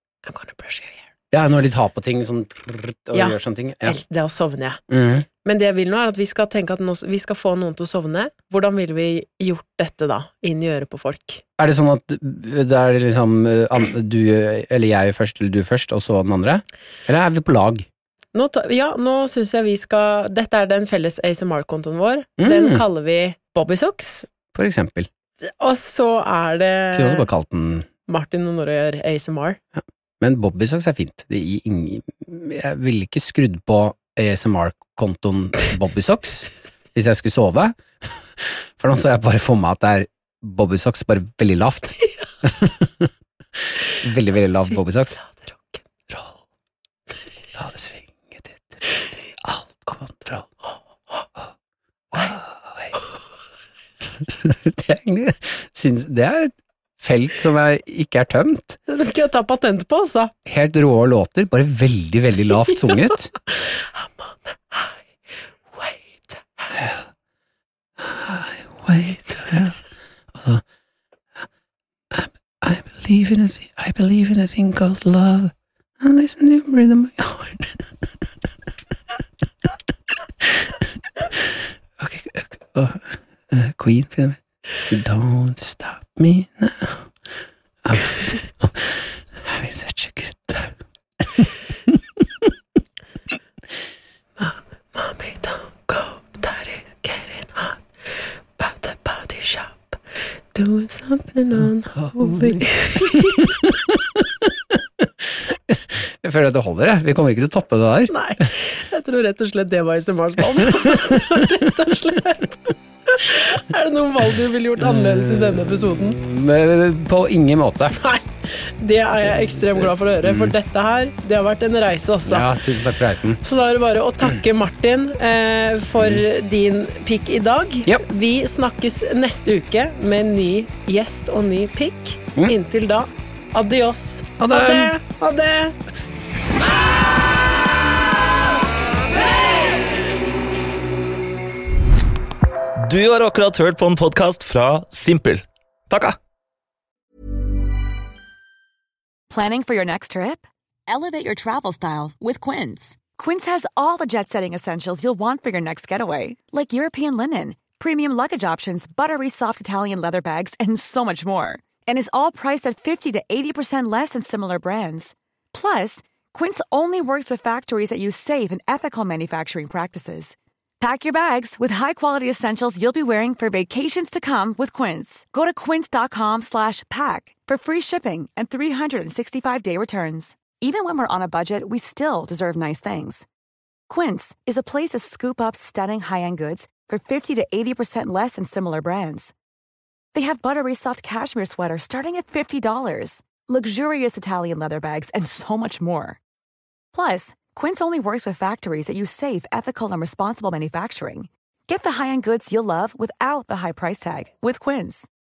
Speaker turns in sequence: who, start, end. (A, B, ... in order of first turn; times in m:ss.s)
0:00.3-0:01.0 A
0:01.3-0:04.0 B
0:03.1-0:04.8 A
0:04.9-0:05.3 B
0:05.4-0:11.4 A
0:11.6-0:17.9 B
0:18.3-0:24.3 A
0:22.4-0:22.8 B
0:24.5-0:25.1 B
0:25.4-0:27.3 A
0:26.9-0:27.9 B
0:28.1-0:29.6 A
0:29.8-0:37.8 B
0:38.4-0:43.1 B
0:44.0-0:45.2 B
0:44.6-0:45.8 A
0:47.6-0:50.5 B
0:52.1-0:53.0 B
0:54.2-0:58.8 B
0:58.9-1:00.3 A
1:00.5-1:03.3 B
1:04.0-1:05.0 A
1:05.7-1:06.7 A
1:06.8-1:07.0 B
1:08.0-1:09.8 B
1:10.3-1:10.6 B
1:12.1-1:18.3 B
1:20.4-1:24.4 B
1:24.9-1:27.1 B
1:27.8-1:32.5 B
1:34.4-1:37.8 A
1:38.6-1:40.0 A
1:40.5-1:43.6 A
1:42.0-1:48.1 B
1:48.1-1:56.2 A
1:50.6-1:51.4 B
1:54.8-1:58.0 B
1:58.0-1:58.2 A
1:58.8-2:02.5 A
1:59.4-2:00.6 B
2:02.2-2:03.4 B
2:03.4-2:15.8 A
2:14.4-2:15.0 B
2:22.9-2:26.2 C
2:29.3-3:03.3 D
3:03.9-3:09.3 D
3:10.1-3:16.2 D
3:16.9-3:25.1 D